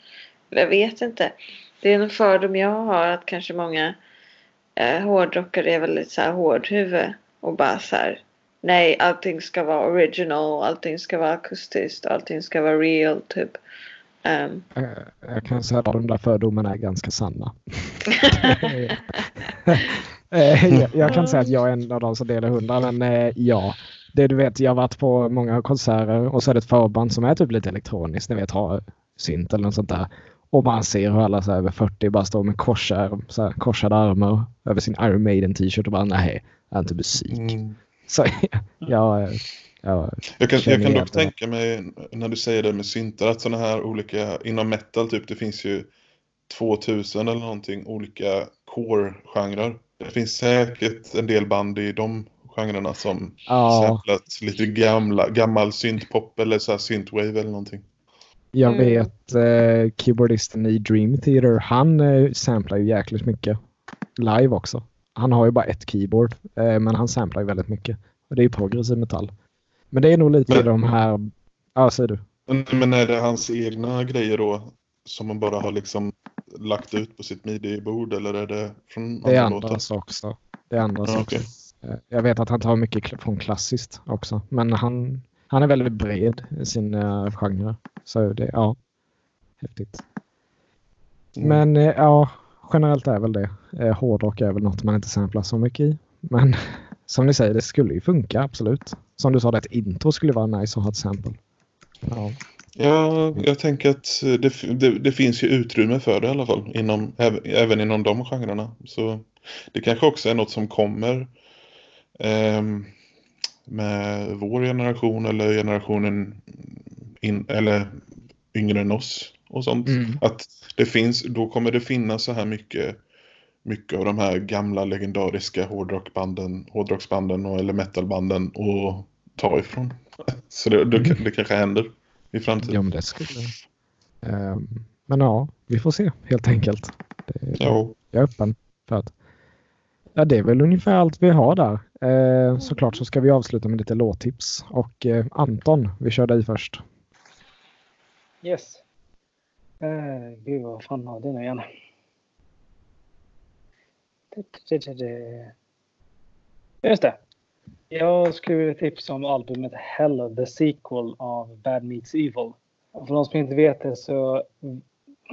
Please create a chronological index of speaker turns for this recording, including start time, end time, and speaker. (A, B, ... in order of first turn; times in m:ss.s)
0:00.5-0:04.0 A
0:04.8-0:13.6 A
0:14.2-0:14.6 A
0:14.7-0:37.5 B
0:18.2-0:18.6 A
0:21.0-0:21.5 A
0:37.3-0:37.8 C
0:38.1-0:41.3 B
0:40.4-0:45.9 C
0:46.5-0:57.8 C
0:53.5-0:54.0 B
0:58.5-1:03.6 B
0:58.6-0:59.1 A
1:04.2-1:09.3 B
1:09.9-1:12.2 B
1:12.5-1:19.8 C
1:19.2-1:28.8 B
1:21.0-1:21.4 C
1:29.6-1:30.0 B
1:31.3-1:31.6 C
1:31.4-1:41.4 B
1:42.0-1:42.4 B
1:42.8-1:51.3 C
1:52.2-1:52.9 C
1:53.7-2:03.0 C
1:59.8-2:00.2 B
2:03.6-2:12.8 C
2:12.6-2:13.5 B
2:14.2-2:19.1 B
2:17.6-2:17.9 C
2:20.2-2:26.8 B
2:28.4-2:28.8 D
2:29.8-2:31.6 D
2:34.3-2:35.5 D
2:36.8-2:37.2 D
2:37.9-2:44.8 D